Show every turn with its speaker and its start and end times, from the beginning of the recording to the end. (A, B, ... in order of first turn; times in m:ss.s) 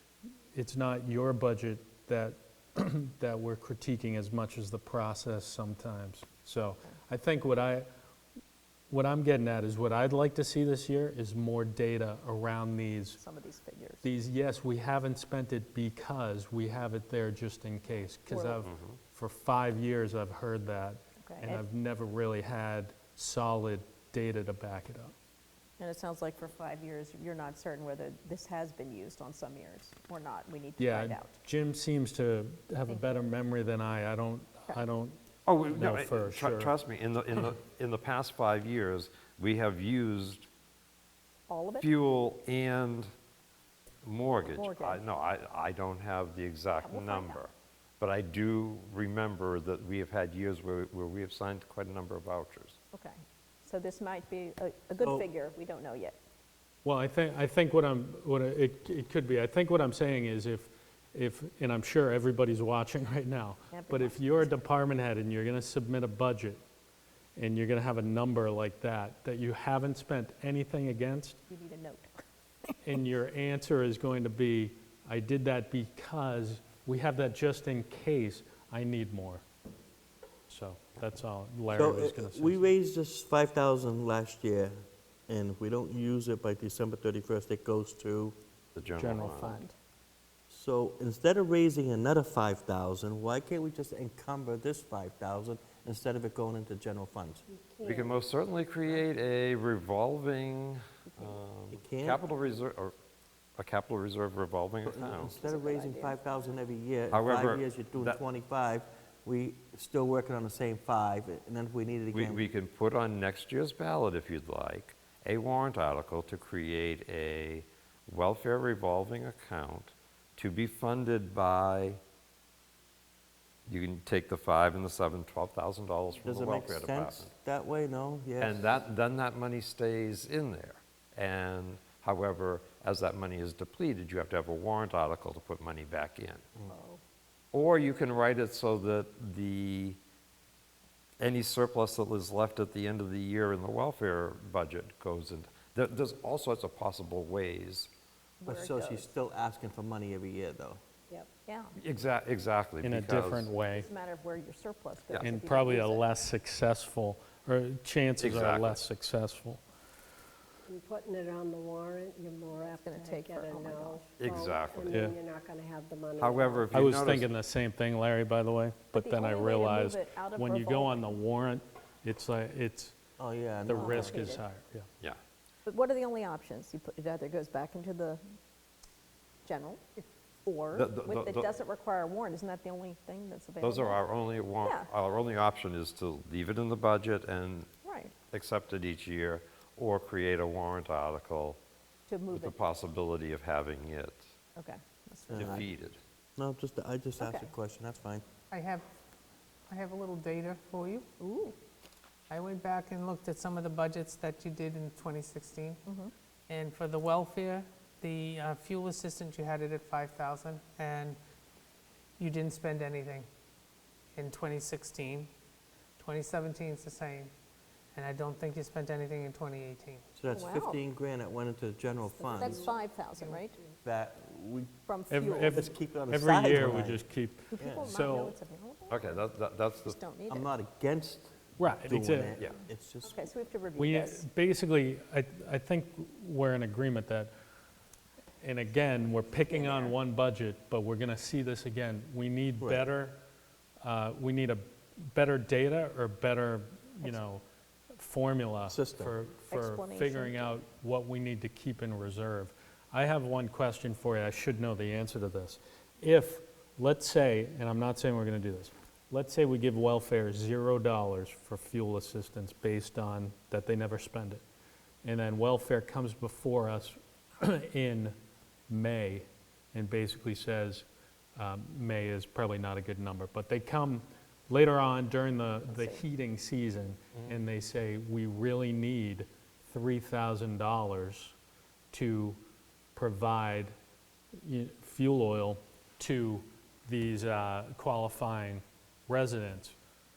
0:00.5-0:07.9 A
0:08.9-0:13.2 A
0:13.2-0:14.1 B
0:14.0-0:25.1 A
0:18.2-0:18.6 B
0:18.6-0:19.0 C
0:21.2-0:21.6 B
0:25.8-0:31.4 B
0:30.8-0:35.2 A
0:32.8-0:33.1 B
0:35.4-0:40.5 C
0:35.7-0:36.7 A
0:41.5-0:41.9 B
0:41.8-0:43.1 C
0:44.0-0:52.8 C
0:44.4-0:45.0 B
0:46.8-0:47.4 B
0:52.9-0:56.2 B
0:55.0-0:55.2 D
0:56.8-1:06.6 A
1:03.7-1:04.6 B
1:07.4-1:11.4 A
1:11.5-1:12.2 B
1:12.8-1:19.4 A
1:20.5-1:22.7 A
1:21.7-1:28.4 D
1:28.8-1:29.5 C
1:29.0-1:29.6 A
1:29.1-1:29.7 B
1:30.5-1:37.4 D
1:37.5-1:38.2 E
1:37.8-1:43.0 C
1:41.1-1:41.4 B
1:41.7-1:42.2 D
1:43.6-1:45.4 C
1:44.8-1:52.4 D
1:45.4-1:46.2 B
1:47.1-1:48.2 C
1:52.1-2:02.0 C
2:03.7-2:07.3 C
2:06.2-2:08.8 D
2:08.4-2:16.5 C
2:16.6-2:17.0 B
2:17.5-2:20.0 C
2:21.2-2:27.9 C
2:28.4-2:29.1 B
2:28.4-2:30.8 D
2:31.4-2:31.7 B
2:31.8-2:33.5 C
2:32.8-2:33.9 A
2:33.7-2:36.1 B
2:35.1-2:35.3 C
2:35.2-2:39.6 A
2:38.2-2:38.8 C
2:40.6-2:46.8 E
2:42.6-2:44.1 B
2:44.2-2:45.0 C
2:44.9-2:45.2 A
2:46.2-2:47.3 C
2:46.7-2:53.0 A
2:48.9-2:51.2 B
2:53.2-2:54.3 D
2:53.7-2:54.9 A
2:53.7-2:54.4 B
2:55.6-2:58.2 B
2:59.4-3:04.0 B
3:00.7-3:01.5 C
3:03.6-3:07.7 C
3:04.6-3:04.9 B
3:07.8-3:08.1 B
3:08.3-3:11.6 C
3:12.1-3:12.6 B
3:12.3-3:14.3 C
3:14.6-3:15.7 B
3:15.3-3:15.7 D
3:15.3-3:16.0 C
3:16.4-3:18.2 D
3:17.2-3:17.5 B
3:18.5-3:18.8 F
3:19.7-3:21.1 F
3:21.2-3:21.6 B
3:22.3-3:25.8 F
3:25.8-3:26.1 B
3:26.5-3:31.2 F
3:32.2-3:33.3 F
3:34.2-3:35.3 F
3:36.0-3:37.3 F
3:37.9-3:40.0 F
3:40.2-3:42.7 D
3:40.3-3:40.8 B
3:42.2-3:43.6 B
3:43.8-3:44.7 D
3:44.9-3:45.6 B
3:45.1-3:48.4 A
3:45.5-3:47.0 D
3:47.5-3:49.2 B
3:47.6-3:47.9 D
3:48.9-3:50.0 C
3:49.8-3:50.5 B
3:50.3-3:53.3 D
3:51.6-3:52.3 A
3:53.0-3:54.2 B
3:53.8-3:57.3 A
3:58.4-4:03.2 A
3:59.4-3:59.9 B
4:03.8-4:07.4 A
4:08.0-4:24.4 A
4:08.7-4:09.1 D
4:09.5-4:10.5 B
4:25.0-4:28.2 A
4:28.7-4:41.3 A
4:35.7-4:36.0 B
4:41.9-4:42.4 A
4:42.9-4:43.7 A
4:44.4-4:49.8 A